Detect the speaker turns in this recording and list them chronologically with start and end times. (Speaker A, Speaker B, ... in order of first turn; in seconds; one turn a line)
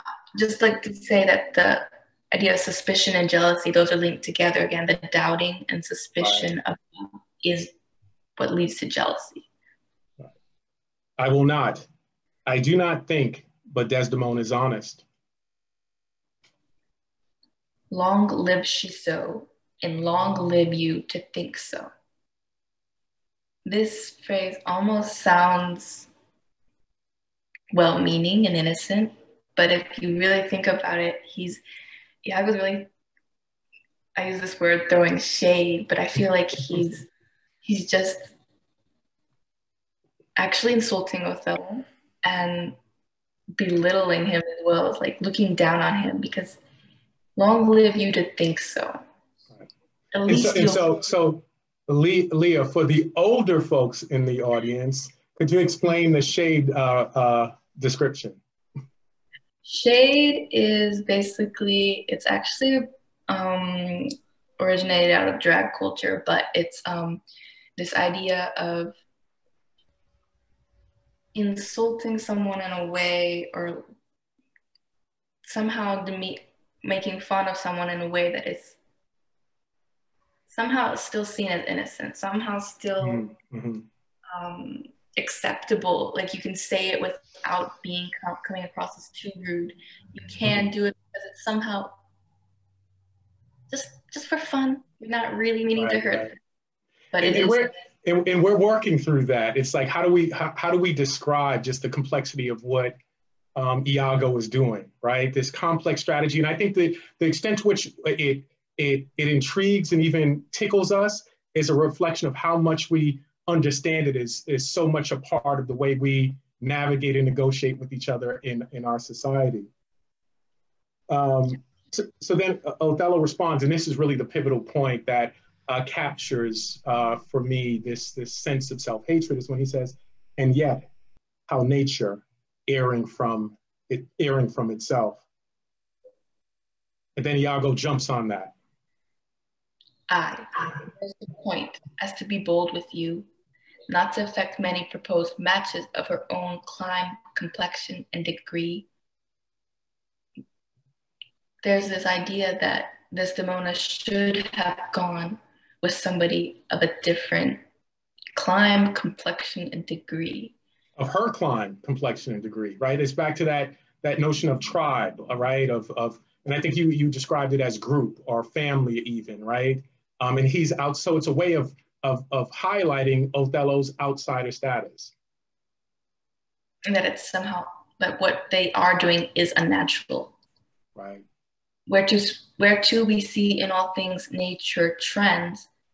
Speaker A: 0.3-7.7
Speaker B: 6.2-6.5
Speaker A: 8.4-9.5
Speaker B: 11.2-11.9
Speaker B: 12.4-15.0
Speaker A: 17.9-21.9
Speaker A: 23.6-26.1
Speaker A: 27.7-31.6
Speaker A: 32.2-32.9
Speaker A: 34.1-37.1
Speaker A: 37.6-38.3
Speaker A: 40.4-42.8
Speaker A: 43.5-46.6
Speaker A: 47.4-49.0
Speaker A: 50.1-50.9
Speaker B: 50.3-58.4
Speaker A: 59.6-67.2
Speaker A: 67.8-68.9
Speaker A: 71.3-73.8
Speaker A: 75.4-78.8
Speaker A: 80.5-83.3
Speaker B: 83.0-83.8
Speaker A: 84.3-92.0
Speaker A: 93.7-96.3
Speaker B: 95.8-96.3
Speaker A: 97.1-97.7
Speaker B: 97.2-102.9
Speaker B: 103.5-119.7
Speaker B: 121.1-130.9
Speaker B: 131.5-135.2
Speaker B: 137.2-138.5
Speaker A: 140.1-143.3
Speaker A: 143.9-148.9
Speaker A: 151.6-157.6
Speaker A: 158.3-160.5
Speaker B: 161.0-175.1
Speaker A: 176.8-180.3
Speaker B: 180.9-181.2
Speaker A: 181.9-185.7